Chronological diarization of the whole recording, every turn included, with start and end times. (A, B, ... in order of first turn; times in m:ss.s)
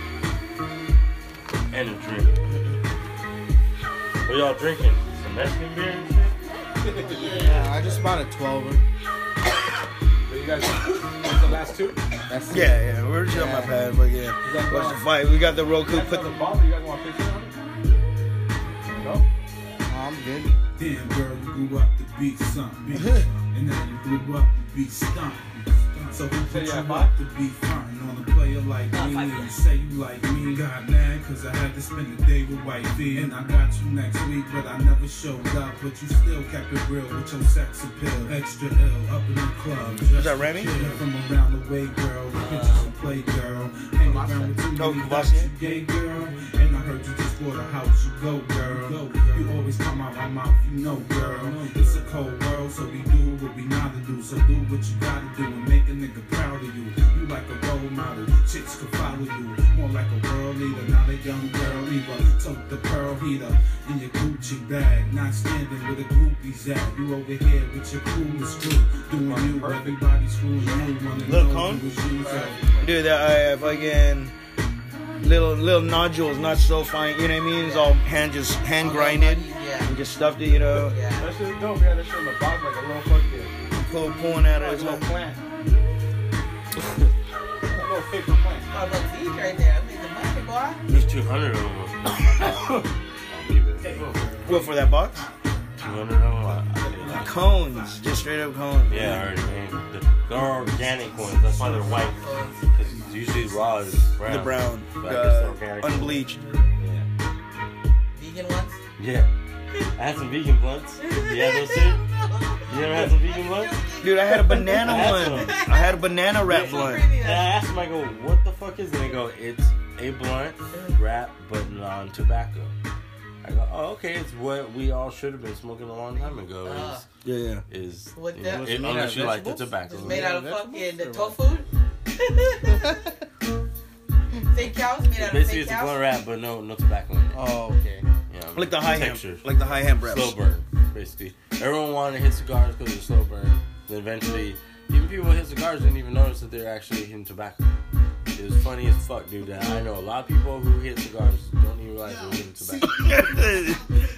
0:01.7-0:02.3 A
0:04.2-0:06.4 A
0:06.8-0:07.4 B
0:07.0-0:07.6 C
0:07.2-0:08.8 D
0:07.3-0:08.0 A
0:10.3-0:12.0 B
0:12.3-0:13.8 D
0:12.5-0:16.4 E
0:14.4-0:15.0 B
0:15.8-0:17.6 B
0:18.9-0:19.2 B
0:19.8-0:20.5 D
0:20.7-1:12.7 F
0:23.0-0:23.3 E
0:26.3-0:27.2 B
0:28.9-0:29.5 C
0:40.1-0:40.9 E
0:42.3-0:43.2 C
0:44.0-0:44.6 C
0:44.7-0:45.5 E
0:51.1-0:52.0 B
1:09.1-1:10.0 B
1:10.5-1:11.0 C
1:11.2-1:11.9 E
1:12.2-1:12.9 B
1:12.8-1:14.3 E
1:15.2-1:21.0 E
1:17.5-1:18.0 C
1:18.8-1:20.0 C
1:20.7-1:21.3 C
1:21.1-1:23.5 B
1:23.7-1:25.1 E
1:24.5-1:25.4 B
1:27.6-1:28.7 B
1:28.7-1:30.8 C
1:30.9-1:31.3 E
1:30.9-1:34.1 A
1:33.8-1:38.2 F
1:34.4-1:35.3 E
1:35.8-1:37.4 A
1:37.0-1:39.3 E
1:38.9-1:46.2 A
1:40.4-1:44.1 F
1:42.1-1:42.6 C
1:44.2-1:46.4 E
1:46.8-1:47.1 A
1:48.2-1:48.8 C
1:49.0-1:49.3 A
1:50.0-1:52.0 A
1:51.0-1:57.5 C
1:52.7-1:53.8 A
1:54.0-1:57.1 E
1:54.8-1:55.6 A
1:56.5-2:02.7 A
2:00.7-2:01.0 C
2:03.4-2:07.0 A
2:06.1-2:07.0 C
2:07.2-2:07.6 E
2:07.7-2:10.3 A
2:08.1-2:08.7 C
2:08.4-2:11.4 D
2:10.0-2:12.7 C
2:12.7-2:13.0 D
2:14.5-2:16.0 C
2:15.2-2:17.5 A
2:17.3-2:18.0 D
2:18.3-2:19.5 A
2:18.5-2:20.3 E
2:20.0-2:27.6 A
2:28.3-2:33.1 A
2:32.8-2:33.8 E